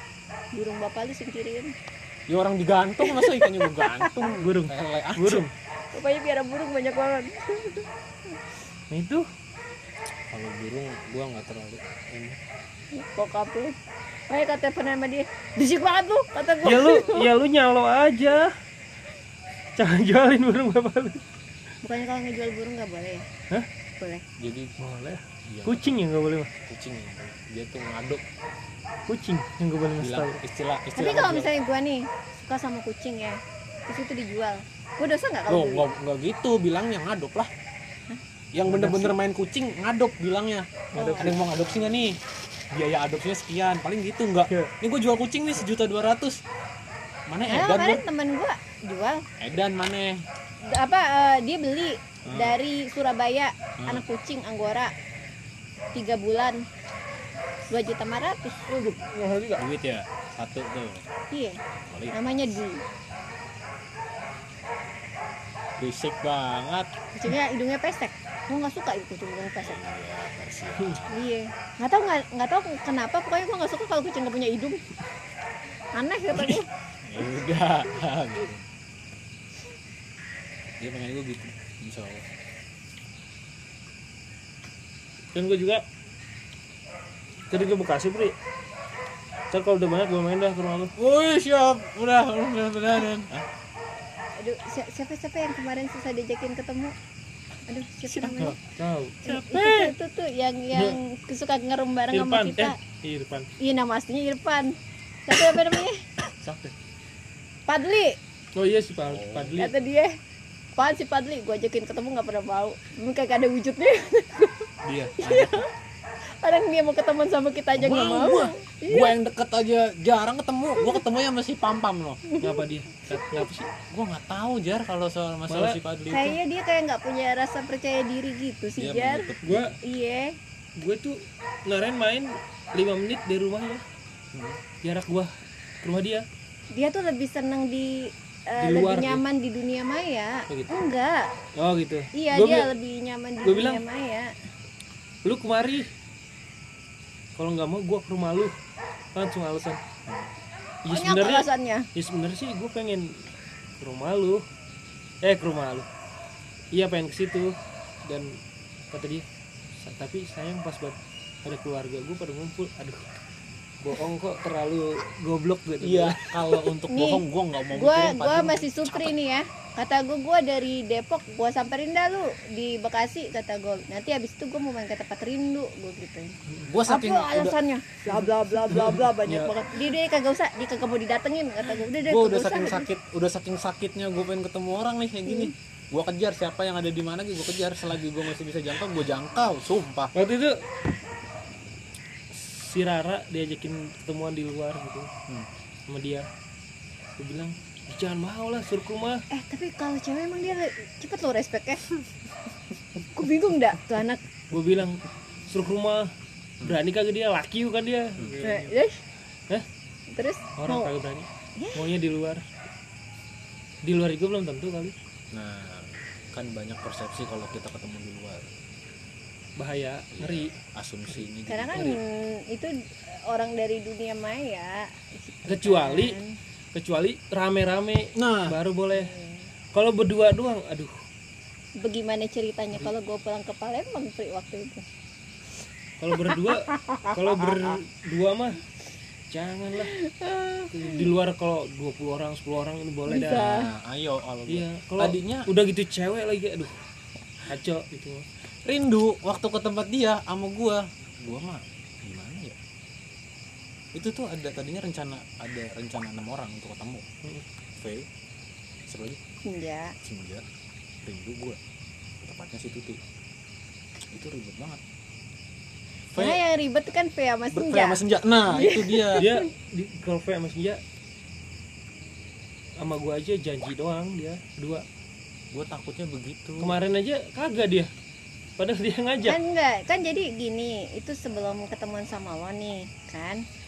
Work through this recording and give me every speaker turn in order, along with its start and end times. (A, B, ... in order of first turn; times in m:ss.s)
0:00.5-0:01.7 A
0:02.3-0:05.4 B
0:03.0-0:04.3 A
0:04.3-0:05.5 C
0:05.9-0:08.4 A
0:08.9-0:09.2 C
0:10.3-0:12.4 B
0:12.9-0:13.8 A
0:14.3-0:17.3 A
0:16.6-0:18.5 C
0:19.8-0:21.2 C
0:21.8-0:23.3 A
0:24.0-0:24.2 A
0:24.4-0:24.8 B
0:24.8-0:26.5 C
0:25.5-0:26.0 B
0:26.6-0:28.2 B
0:29.1-0:30.4 C
0:30.0-0:31.5 B
0:31.0-0:35.9 A
0:35.5-0:37.5 B
0:38.5-0:42.2 B
0:38.6-0:39.2 C
0:41.0-0:41.4 C
0:41.0-0:41.8 A
0:42.7-0:46.4 B
0:47.3-0:48.0 B
0:47.5-0:49.3 A
0:49.4-0:50.2 B
0:50.7-0:54.9 A
0:52.3-0:52.6 B
0:55.9-0:56.6 A
0:57.7-0:58.6 A
0:58.7-0:59.7 C
0:59.6-1:01.1 B
1:01.3-1:01.6 A
1:01.8-1:02.6 B
1:02.1-1:02.8 A
1:05.8-1:06.9 B
1:07.2-1:09.8 A
1:09.6-1:11.2 B
1:10.8-1:11.0 C
1:11.1-1:14.8 A
1:15.9-1:16.7 A
1:16.3-1:18.6 B
1:20.8-1:22.3 B
1:25.4-1:25.8 C
1:27.5-1:28.4 C
1:29.5-1:30.9 C
1:31.0-1:33.5 B
1:34.4-1:37.0 A
1:37.7-1:38.6 A
1:38.1-1:38.5 B
1:38.4-1:39.2 C
1:39.2-1:42.8 A
1:39.2-1:39.9 B
1:40.7-1:41.0 C
1:42.1-1:43.5 C
1:43.6-1:44.8 A
1:45.3-1:46.1 A
1:46.4-1:46.7 C
1:47.7-1:48.2 A
1:48.6-1:49.7 C
1:49.1-1:49.6 B
1:49.6-1:50.2 A
1:50.8-1:55.7 A
1:54.8-1:55.7 B
1:56.3-1:59.1 A
1:57.8-2:02.2 B
2:02.3-2:03.4 A
2:02.4-2:03.7 C
2:03.9-2:06.4 B
2:05.5-2:05.8 C
2:06.1-2:10.4 A
2:08.8-2:09.8 B
2:09.4-2:09.8 C
2:10.8-2:13.8 C
2:14.3-2:14.6 B
2:14.8-2:16.2 C
2:16.7-2:21.4 A
2:18.6-2:19.2 C
2:20.5-2:20.9 C
2:21.6-2:22.7 C
2:22.2-2:24.4 A
2:23.4-2:23.8 C
2:25.2-2:25.9 C
2:27.4-2:28.5 C
2:29.2-2:29.8 C
2:30.1-2:30.3 B
2:30.8-2:33.2 C
2:30.9-2:31.9 A
2:33.8-2:34.4 C
2:35.2-2:35.9 C
2:36.7-2:37.6 C
2:38.1-2:38.4 C
2:38.9-2:39.2 C
2:39.8-2:43.0 C
2:43.8-2:46.3 C
2:45.8-2:49.2 B
2:46.7-2:47.2 A
2:47.7-3:02.9 A
2:56.7-2:57.6 B
2:58.1-2:59.5 C
3:02.0-3:10.1 B
3:05.3-3:05.5 A
3:10.1-3:10.7 C
3:12.3-3:15.1 C
3:15.9-3:16.3 C
3:17.2-3:19.2 C
3:19.3-3:21.9 A
3:23.0-3:24.2 A
3:24.5-3:28.7 C
3:28.2-3:28.4 B
3:28.4-3:29.0 A
3:30.1-3:30.9 A
3:30.6-3:32.5 C
3:31.6-3:32.0 A
3:33.8-3:34.9 C
3:35.3-3:38.5 B
3:39.6-3:40.6 C
3:40.1-3:42.0 B
3:41.5-3:46.4 A
3:45.5-3:46.2 C
3:46.8-3:49.1 C
3:48.2-3:48.6 B
3:48.9-3:49.5 A
3:49.7-3:50.9 C
3:51.8-3:54.8 A
3:56.0-3:58.6 C
3:56.2-3:57.8 A
3:59.3-4:00.0 C
4:00.0-4:01.1 A
4:00.7-4:03.6 C
4:03.1-4:03.7 A
4:03.3-4:05.5 B
4:04.5-4:06.7 C
4:07.5-4:08.3 C
4:08.5-4:12.6 B
4:13.9-4:17.0 B
4:17.8-4:18.1 B
4:18.9-4:19.2 B
4:19.4-4:19.9 A
4:20.0-4:20.4 B
4:21.0-4:21.6 B
4:22.2-4:23.0 B
4:24.0-4:24.8 B
4:26.1-4:26.4 B
4:26.2-4:29.3 A
4:27.5-4:29.3 B
4:29.2-4:30.8 C
4:32.8-4:34.8 C
4:35.5-4:36.8 B
4:36.6-4:37.9 C
4:38.6-4:39.4 C
4:39.3-4:43.4 A